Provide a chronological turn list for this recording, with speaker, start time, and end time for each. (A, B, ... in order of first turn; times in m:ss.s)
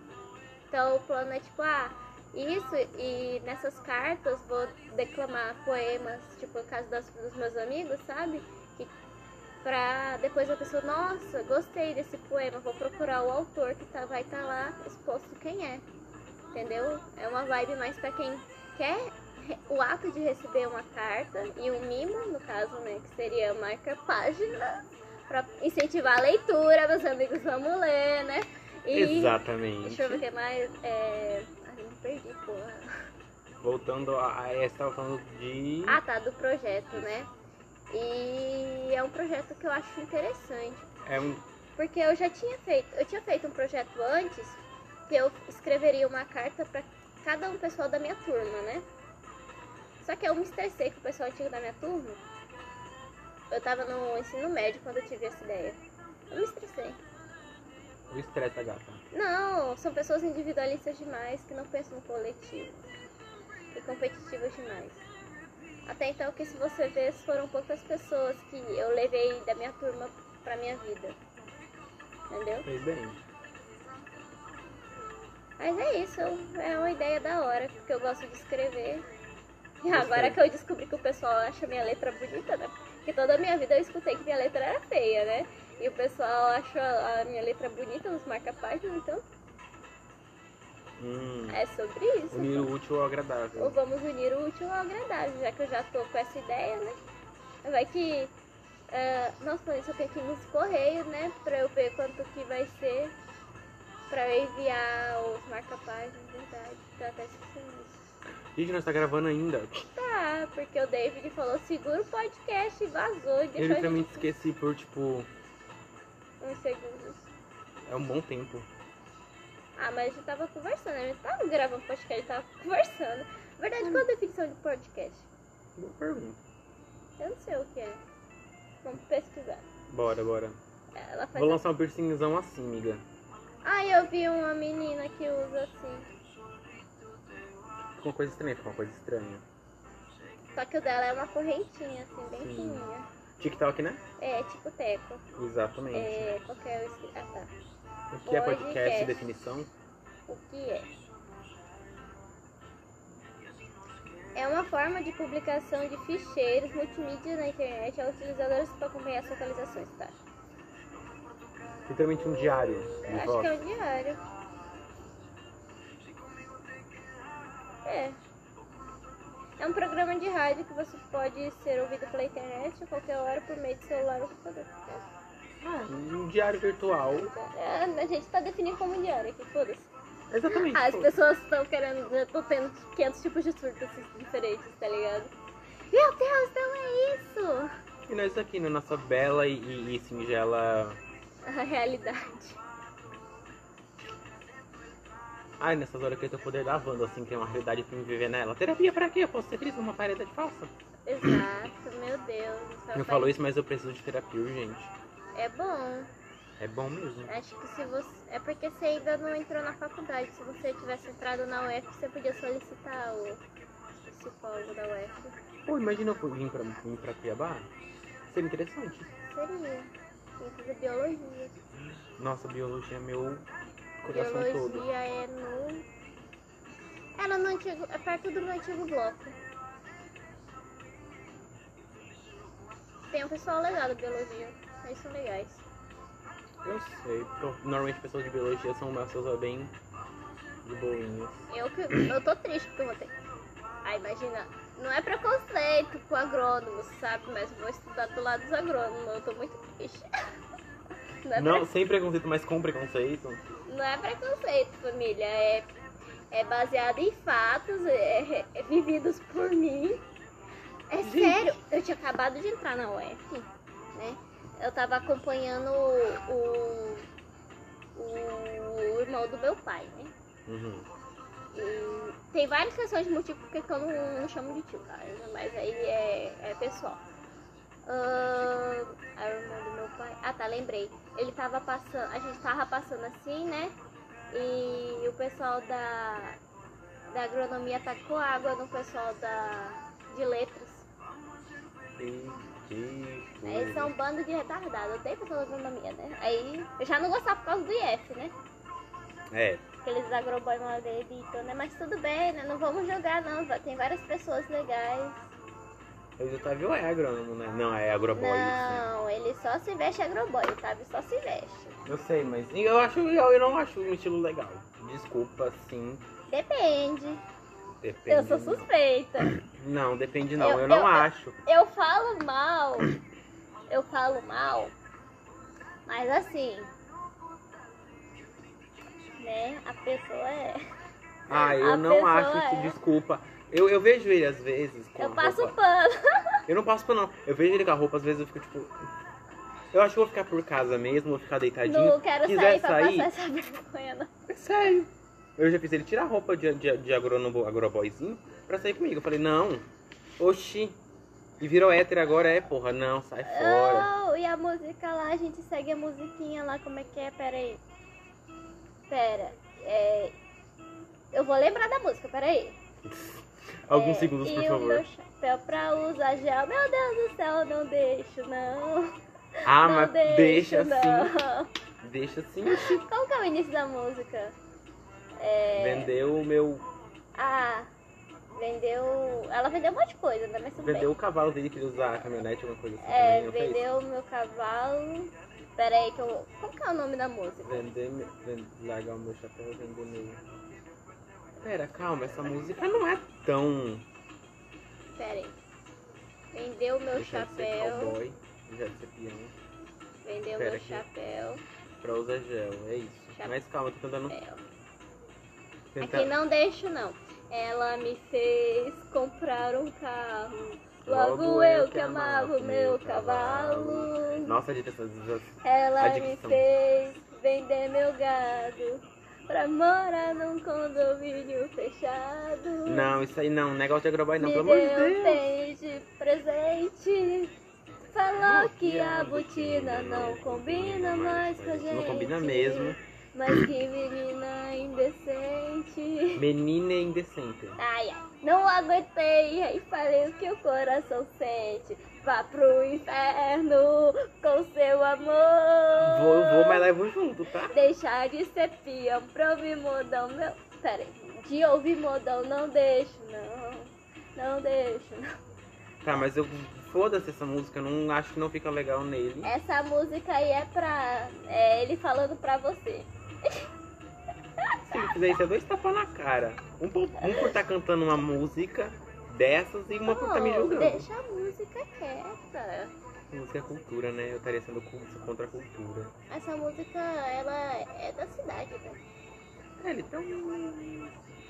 0:00.7-0:08.9 A
0:09.6-0:15.8 A
0:16.5-0:32.9 A
0:28.9-0:30.2 B
0:33.6-0:36.0 B
0:35.9-0:37.3 A
0:37.9-0:40.9 A
0:41.0-0:41.4 B
0:41.8-0:48.9 A
0:50.0-0:52.2 A
0:53.5-0:57.0 A
0:58.1-0:59.0 B
0:59.1-1:02.9 A
1:03.7-1:05.0 A
1:05.9-1:11.2 A
1:12.3-1:12.7 A
1:12.6-1:13.2 B
1:15.6-1:19.1 A
1:19.8-1:29.2 A
1:19.9-1:20.4 B
1:31.0-1:31.6 B
1:31.5-1:32.7 A
1:32.3-1:33.8 B
1:33.6-1:37.0 A
1:37.6-1:38.3 A
1:38.9-1:43.2 A
1:44.1-1:48.0 A
1:48.6-1:49.9 B
1:50.0-1:54.3 A
1:53.6-1:55.3 B
1:56.4-1:57.3 A
1:57.9-1:58.7 B
1:59.8-2:05.3 A
2:05.8-2:06.4 B
2:07.2-2:08.0 A
2:08.8-2:09.7 A
2:09.9-2:10.6 B
2:10.9-2:11.6 A
2:11.3-2:13.0 B
2:13.6-2:16.1 A
2:18.0-2:19.4 B
2:20.6-2:23.1 A
2:22.4-2:22.9 B
2:23.4-2:24.0 B
2:24.2-2:25.2 A
2:25.4-2:26.3 B
2:25.9-2:27.5 A
2:28.1-2:29.7 B
2:28.3-2:29.3 A
2:30.3-2:30.9 A
2:34.4-2:40.2 A
2:41.9-2:43.5 B
2:43.1-2:44.2 A
2:47.8-2:48.2 A
2:49.6-2:55.0 A
2:55.6-2:57.3 B
2:57.1-2:59.9 A
3:00.3-3:01.1 B
3:00.7-3:05.3 A
3:05.9-3:07.7 A
3:08.1-3:11.0 B
3:11.4-3:12.6 A
3:15.6-3:20.7 B
3:21.1-3:23.3 A
3:23.0-3:24.9 B
3:25.4-3:26.1 A
3:26.6-3:27.3 B
3:27.3-3:33.4 A
3:33.9-3:35.4 A
3:35.7-3:37.7 B
3:38.3-3:39.1 B
3:39.2-3:41.6 A
3:42.2-3:43.5 B
3:44.0-3:44.9 B
3:44.1-3:45.9 A
3:47.2-3:49.4 A
3:53.1-3:55.6 A
3:56.6-3:59.7 B
4:00.6-4:02.1 B
4:01.5-4:03.1 A
4:03.8-4:10.1 A
4:11.2-4:11.7 A
4:11.4-4:13.4 B
4:13.7-4:15.7 A
4:16.3-4:20.0 A
4:20.9-4:27.1 A
4:21.0-4:21.6 B
4:28.0-4:30.1 A
4:30.5-4:30.9 B
4:31.5-4:37.0 A
4:37.9-4:43.8 A
4:44.3-4:46.4 A
4:47.1-4:50.9 A
4:52.0-4:53.9 B
4:53.4-4:58.3 A
4:59.3-4:59.6 B
4:59.8-5:05.3 A
5:06.2-5:08.9 B
5:08.1-5:11.8 A
5:11.9-5:16.0 B
5:16.3-5:17.2 A
5:17.8-5:18.7 B
5:18.1-5:19.3 A
5:19.2-5:21.4 B
5:20.4-5:22.9 A
5:23.7-5:24.8 A
5:25.9-5:26.7 A
5:29.2-5:30.6 A
5:31.3-5:35.5 B
5:31.3-5:32.8 A
5:35.0-5:36.4 A
5:36.5-5:38.8 B
5:39.7-5:43.1 B
5:41.7-5:44.1 A
5:44.3-5:49.7 B
5:50.2-5:50.8 B
5:51.4-5:53.9 B
5:53.2-5:57.6 A
5:58.9-6:00.2 A
6:01.1-6:02.6 A
6:02.9-6:04.9 B
6:03.7-6:09.0 A
6:09.5-6:11.1 B
6:09.5-6:11.5 A
6:11.8-6:12.8 B
6:12.5-6:14.4 A
6:15.2-6:15.9 A
6:15.6-6:16.7 B
6:17.2-6:17.7 A
6:18.4-6:20.9 A
6:20.6-6:23.6 B
6:22.8-6:27.7 A
6:27.4-6:30.2 B
6:31.4-6:33.9 B
6:35.0-6:35.4 A
6:36.3-6:38.0 A
6:37.0-6:39.4 B
6:40.0-6:41.4 A
6:40.4-6:40.8 B
6:41.8-6:44.2 B
6:44.1-6:44.4 A
6:45.7-6:46.1 B
6:45.8-6:54.4 A
6:50.9-6:56.4 B
6:55.4-7:02.9 A
7:02.7-7:05.3 B
7:04.2-7:07.3 A
7:07.9-7:16.2 A
7:08.1-7:12.8 B
7:16.2-7:17.6 B
7:17.6-7:26.7 A
7:25.8-7:27.6 B
7:27.5-7:35.1 A
7:35.8-7:39.3 B
7:39.2-7:43.5 A
7:44.4-7:44.7 A
7:44.7-7:50.9 B
7:47.0-7:47.3 A
7:49.9-7:52.7 A
7:53.1-7:55.9 B
7:56.1-7:58.8 A
7:59.6-8:01.0 B